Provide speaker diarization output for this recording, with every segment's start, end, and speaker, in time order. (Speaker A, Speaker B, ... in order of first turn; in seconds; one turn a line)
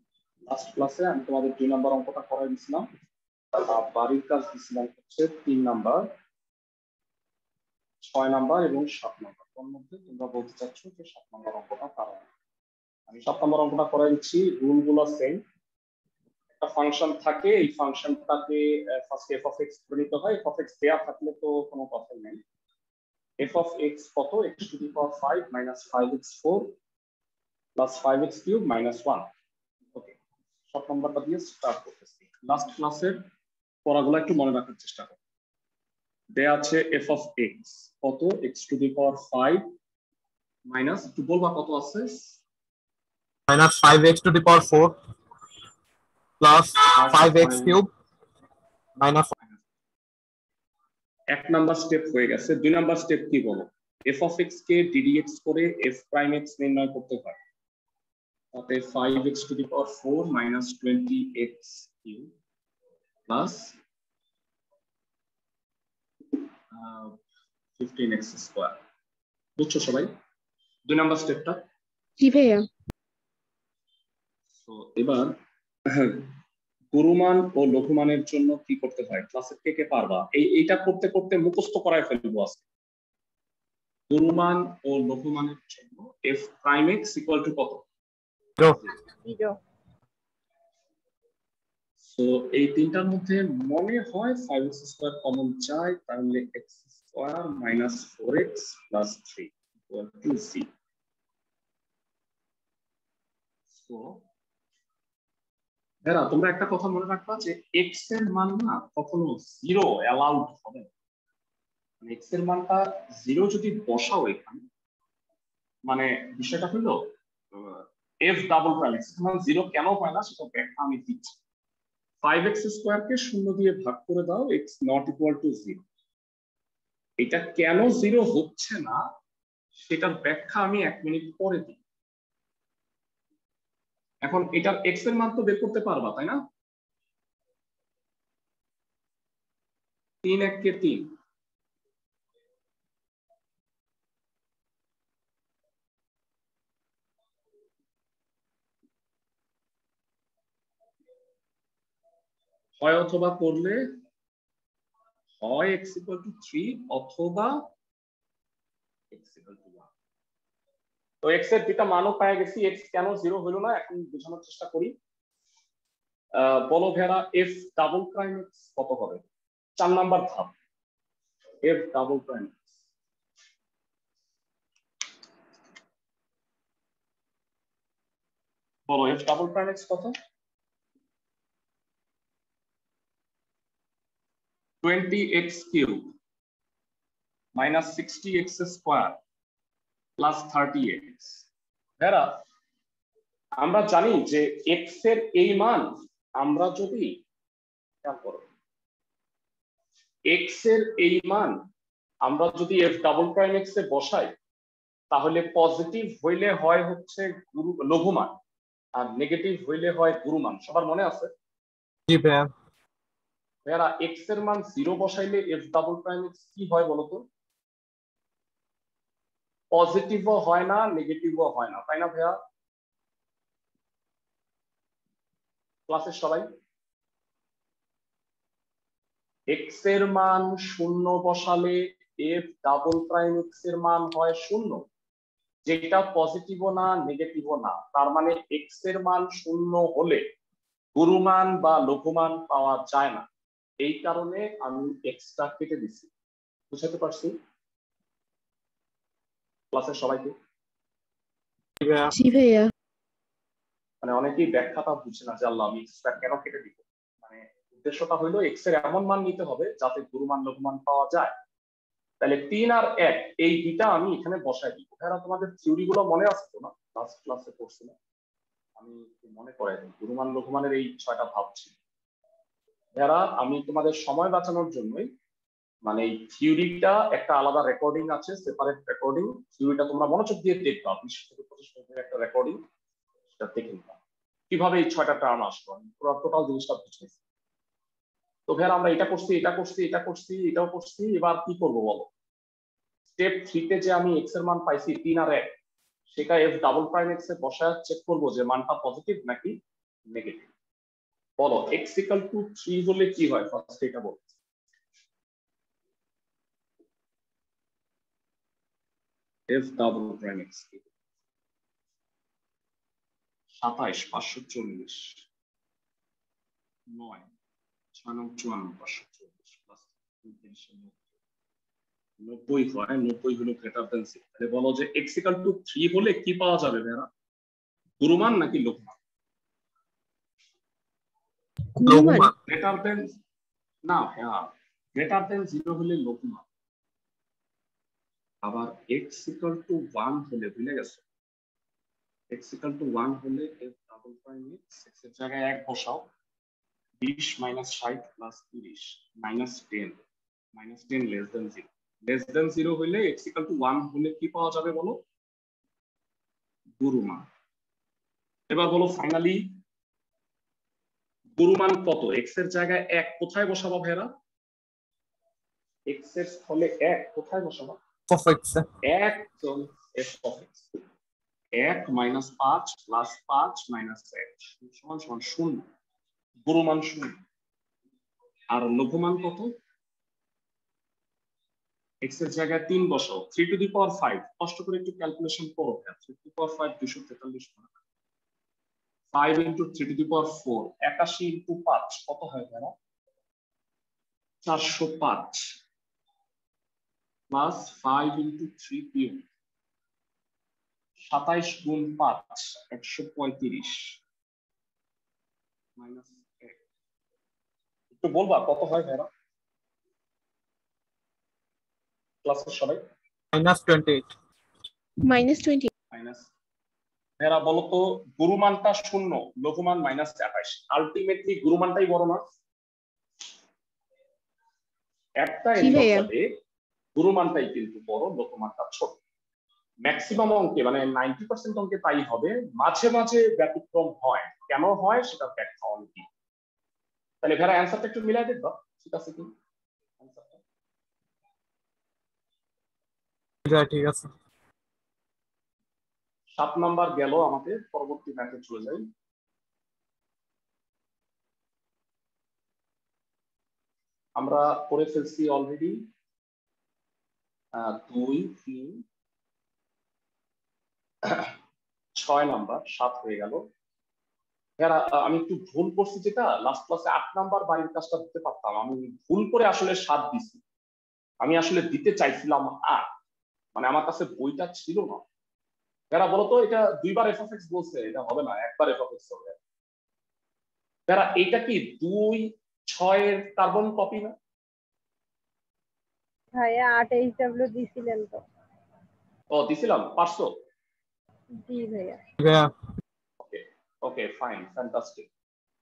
Speaker A: 0.5-2.9
Speaker A: 3.5-6.1
Speaker A: 8.0-12.2
Speaker A: 13.1-15.4
Speaker A: 16.6-22.4
Speaker A: 23.4-26.7
Speaker A: 27.8-29.3
Speaker A: 30.7-33.2
Speaker A: 33.8-35.2
Speaker A: 36.3-39.7
Speaker A: 40.6-42.4
Speaker B: 43.5-45.0
Speaker B: 46.4-47.9
Speaker A: 46.9-47.8
Speaker B: 49.0-49.3
Speaker A: 51.3-57.4
Speaker A: 58.5-62.3
Speaker A: 63.3-63.8
Speaker A: 66.7-67.2
Speaker A: 67.8-68.8
Speaker A: 69.6-70.1
Speaker A: 70.8-71.6
Speaker C: 72.2-72.7
Speaker A: 74.6-76.3
Speaker A: 76.9-82.6
Speaker A: 84.1-87.8
Speaker D: 89.0-89.6
Speaker A: 92.0-100.7
Speaker A: 103.7-104.2
Speaker A: 106.0-110.9
Speaker A: 112.0-114.6
Speaker A: 115.9-117.0
Speaker A: 117.5-121.3
Speaker A: 122.2-125.8
Speaker A: 127.2-129.0
Speaker A: 129.8-131.8
Speaker A: 134.2-136.4
Speaker A: 140.2-141.1
Speaker A: 152.8-154.0
Speaker A: 155.4-157.7
Speaker A: 159.1-159.9
Speaker A: 161.2-164.9
Speaker A: 166.3-169.2
Speaker A: 169.8-170.5
Speaker A: 171.6-172.7
Speaker A: 178.9-180.1
Speaker A: 184.8-186.1
Speaker A: 187.6-189.2
Speaker A: 190.2-191.4
Speaker A: 192.0-192.4
Speaker A: 193.6-197.2
Speaker A: 198.0-198.5
Speaker A: 200.3-201.6
Speaker A: 202.2-204.3
Speaker A: 205.1-208.4
Speaker A: 208.9-211.3
Speaker B: 212.1-212.5
Speaker A: 213.7-217.3
Speaker A: 219.7-222.4
Speaker A: 225.9-226.5
Speaker A: 229.5-234.8
Speaker A: 235.6-240.2
Speaker A: 240.9-243.3
Speaker A: 243.8-246.1
Speaker A: 246.7-247.3
Speaker A: 249.7-250.3
Speaker B: 251.8-252.1
Speaker C: 252.1-252.7
Speaker A: 254.0-261.3
Speaker A: 262.2-267.9
Speaker A: 268.8-271.7
Speaker A: 272.9-275.1
Speaker A: 275.9-282.6
Speaker A: 283.4-284.0
Speaker A: 284.5-287.2
Speaker A: 288.5-292.1
Speaker A: 293.2-295.6
Speaker A: 296.1-299.6
Speaker A: 300.1-300.5
Speaker A: 301.4-304.3
Speaker A: 309.5-310.8
Speaker A: 313.5-315.2
Speaker A: 316.9-317.2
Speaker A: 317.9-321.0
Speaker A: 322.2-327.1
Speaker A: 328.0-328.9
Speaker C: 331.8-332.3
Speaker B: 331.8-332.3
Speaker A: 332.5-333.1
Speaker A: 333.8-336.4
Speaker A: 338.4-341.0
Speaker A: 342.3-346.1
Speaker A: 347.0-350.0
Speaker A: 350.6-355.0
Speaker A: 356.8-357.3
Speaker A: 358.5-359.6
Speaker A: 361.4-364.1
Speaker A: 365.9-367.8
Speaker B: 368.1-368.7
Speaker A: 368.8-370.7
Speaker A: 371.5-375.7
Speaker A: 376.4-377.2
Speaker A: 378.5-379.5
Speaker A: 382.0-387.7
Speaker A: 389.1-392.7
Speaker A: 394.4-395.6
Speaker A: 397.3-399.3
Speaker A: 401.0-404.0
Speaker A: 405.8-406.6
Speaker A: 408.0-409.1
Speaker A: 412.2-412.8
Speaker B: 413.3-414.1
Speaker C: 415.0-415.7
Speaker A: 415.9-416.3
Speaker A: 417.2-422.3
Speaker A: 425.2-426.4
Speaker C: 425.6-426.1
Speaker A: 426.9-429.0
Speaker A: 429.8-436.1
Speaker A: 437.2-439.3
Speaker A: 440.0-440.4
Speaker B: 443.4-444.1
Speaker A: 446.3-448.9
Speaker A: 454.1-455.9
Speaker A: 457.5-458.8
Speaker A: 461.0-461.3
Speaker A: 462.0-463.4
Speaker A: 464.6-470.4
Speaker A: 471.2-472.9
Speaker A: 473.6-475.0
Speaker A: 475.9-479.4
Speaker A: 480.9-484.1
Speaker D: 486.3-488.2
Speaker A: 489.3-490.3
Speaker D: 491.3-492.0
Speaker B: 492.2-492.5
Speaker A: 493.2-495.1